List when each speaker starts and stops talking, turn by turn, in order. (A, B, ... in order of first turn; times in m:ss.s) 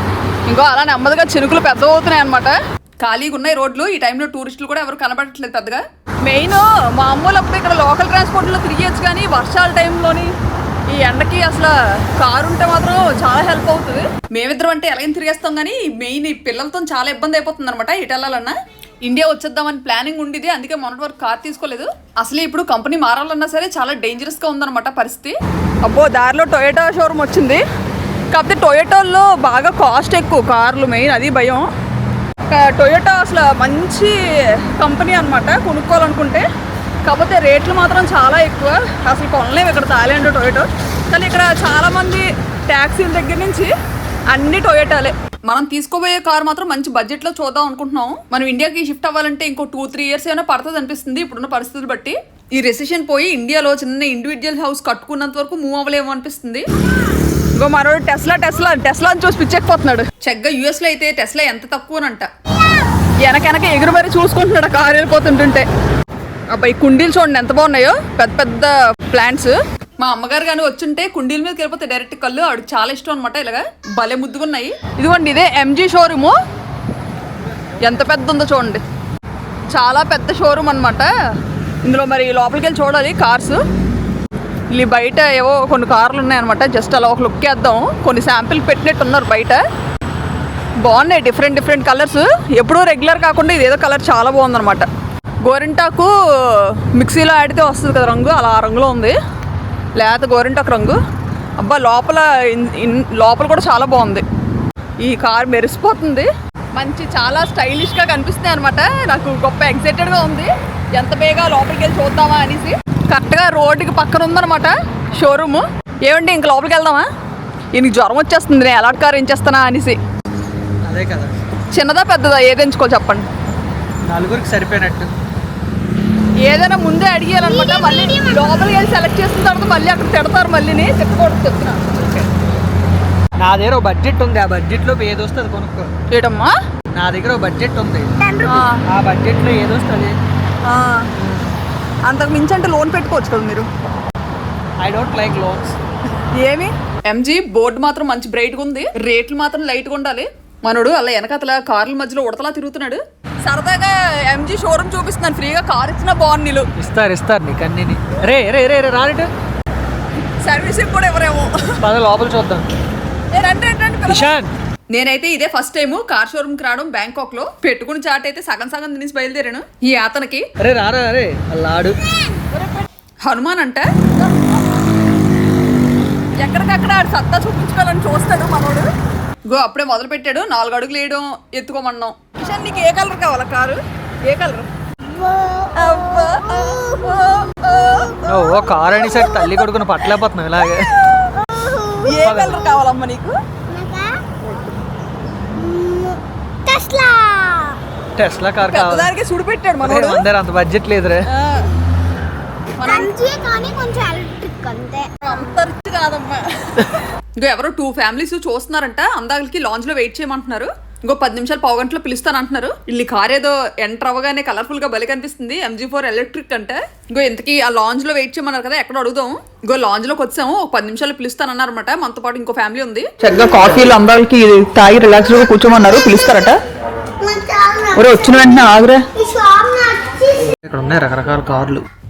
0:00.5-0:10.3 A
0:10.9-0:27.6 A
0:28.3-0:31.7 A
0:32.5-0:36.5 A
0:37.0-0:43.7 A
0:44.3-0:56.6 A
0:57.6-1:02.3 A
1:03.2-1:05.7 A
1:06.5-1:16.4 A
1:17.8-1:18.8 A
1:19.7-1:21.1 A
1:21.8-1:23.6 A
1:24.7-1:29.6 A
1:30.8-1:34.9 A
1:35.4-1:39.2 A
1:40.0-1:41.0 A
1:41.6-1:44.2 A
1:45.0-1:57.0 A
1:57.7-2:00.0 A
2:00.8-2:01.4 B
2:01.7-2:03.2 A
2:04.0-2:05.1 B
2:06.4-2:12.0 A
2:07.4-2:08.8 C
2:12.0-2:12.3 B
2:13.4-2:15.9 B
2:16.1-2:16.5 A
2:16.9-2:18.1 B
2:18.2-2:18.6 C
2:18.4-2:18.8 A
2:18.6-2:20.2 B
2:20.6-2:21.1 A
2:21.2-2:21.5 B
2:22.0-2:23.7 A
2:24.8-2:25.8 B
2:26.3-2:36.7 A
2:36.8-2:39.3 B
2:40.4-2:41.8 A
2:41.8-2:42.7 B
2:43.3-2:44.3 A
2:44.1-2:44.5 B
2:44.9-2:50.5 A
2:50.6-2:51.9 B
2:52.5-2:54.0 A
2:56.4-2:58.9 A
2:59.5-3:04.7 A
3:05.1-3:07.0 C
3:05.7-3:08.2 A
3:08.3-3:11.1 B
3:11.4-3:12.7 C
3:12.0-3:13.4 A
3:12.2-3:12.6 B
3:13.7-3:14.2 C
3:15.5-3:17.8 C
3:18.2-3:19.1 B
3:18.7-3:20.2 A
3:19.8-3:21.3 B
3:21.3-3:21.6 A
3:22.8-3:23.1 A
3:22.8-3:25.1 C
3:25.2-3:46.6 A
3:47.2-3:48.2 C
3:47.9-3:49.0 A
3:49.2-3:50.5 C
3:50.6-3:51.8 B